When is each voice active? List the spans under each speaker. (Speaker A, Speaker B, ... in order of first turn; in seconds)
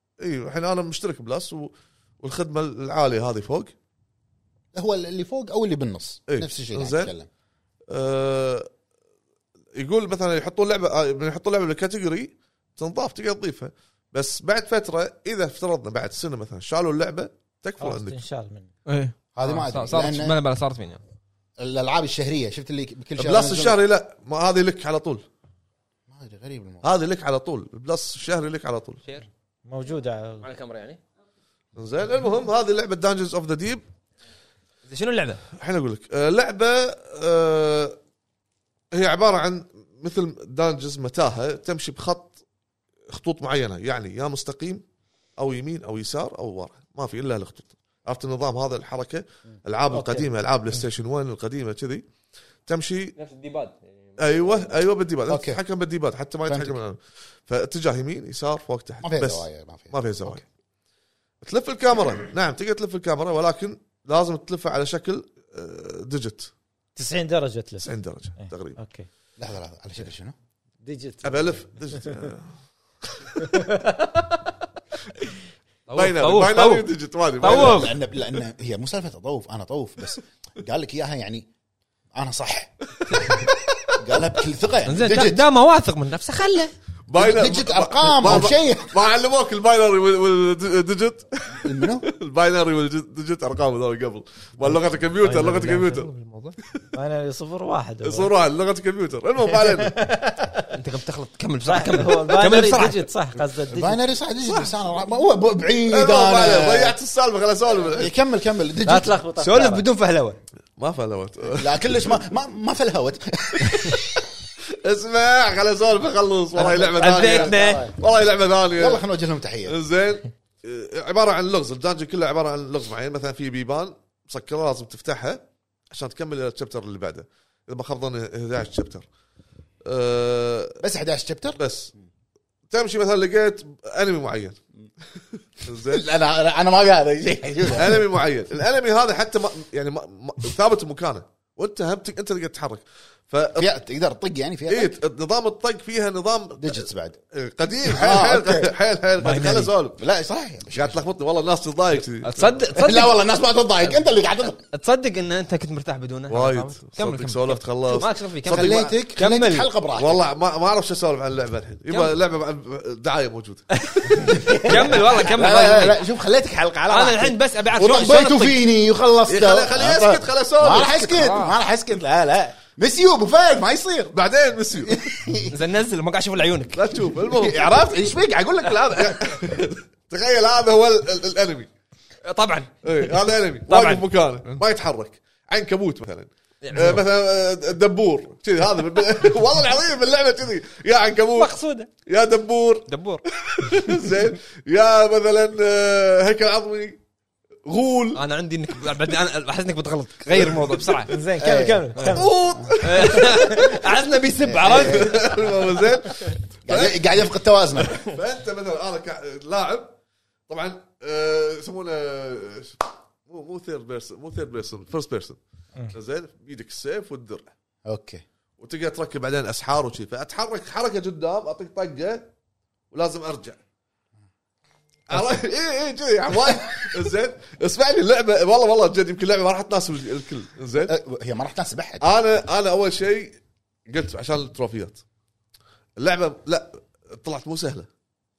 Speaker A: 0.2-3.7, 6.3-7.1, 7.9-8.7, 9.7-18.2, 23.2-25.2, 26.8-29.0, 31.8-33.8, 35.6-38.0, 38.9-42.4, 43.1-44.8, 45.4-52.0, 52.7-53.1, 54.2-60.4, 61.4-66.5, 67.8-68.8, 71.2-72.5, 75.9-77.9, 83.0-84.1, 87.1-96.1, 98.0-100.0, 105.9-108.1, 110.8-112.1, 114.8-119.0, 119.6-129.1, 129.8-130.8, 131.5-131.9, 132.7-134.6, 135.6-136.0, 137.7-143.7, 144.7-150.0, 150.7-152.6, 156.3-158.9, 159.9-163.7, 169.3-171.1, 174.1-175.1, 176.7-177.8, 178.9-181.7, 182.8-192.9, 193.4-197.0, 197.7-198.2, 200.3-201.1, 202.1-203.8, 204.7-207.1, 207.8-209.9, 210.5-215.4, 215.9-217.5, 218.6-222.3, 222.9-223.6, 225.1-230.9, 232.0-235.0, 236.0-237.9
Speaker B: 4.7-7.3, 19.3-20.4, 21.6-23.8, 26.1-26.9, 55.3-55.6, 56.5-56.8, 59.0-60.0, 69.4-70.3, 77.4-81.5, 82.1-83.1, 84.0-85.4, 87.1-88.9, 91.5-92.1, 103.7-107.0, 107.8-109.2, 111.6-114.2, 116.6-117.9, 118.8-119.8, 130.8-131.6, 135.8-138.1, 143.5-145.0, 146.6-147.2, 147.8-148.7, 150.0-151.0, 152.7-154.6, 158.4-160.2, 164.2-174.1, 174.8-175.5, 177.3-179.4, 201.4-202.8, 204.4-205.5, 206.7-208.0, 217.9-218.2, 230.8-232.1
Speaker C: 17.8-18.7, 29.6-30.4, 49.9-50.3, 67.0-69.1, 70.8-71.5, 73.4-74.0, 96.9-98.3, 99.7-100.7, 101.6-104.0, 108.8-109.8, 117.6-117.9, 201.1-202.3
Speaker D: 18.9-21.0, 30.4-31.0, 34.9-35.4, 53.2-54.8, 75.9-77.9, 84.8-86.7, 95.2-96.6, 100.7-103.1, 109.4-110.4, 116.6-117.9, 149.2-149.7, 152.2-153.1, 154.6-159.7, 161.9-162.1, 163.7-166.0, 166.9-168.6, 170.8-171.6, 175.5-177.1, 182.2-184.6, 186.6-187.0, 191.3-191.9, 192.9-193.2, 198.1-201.1, 202.8-205.3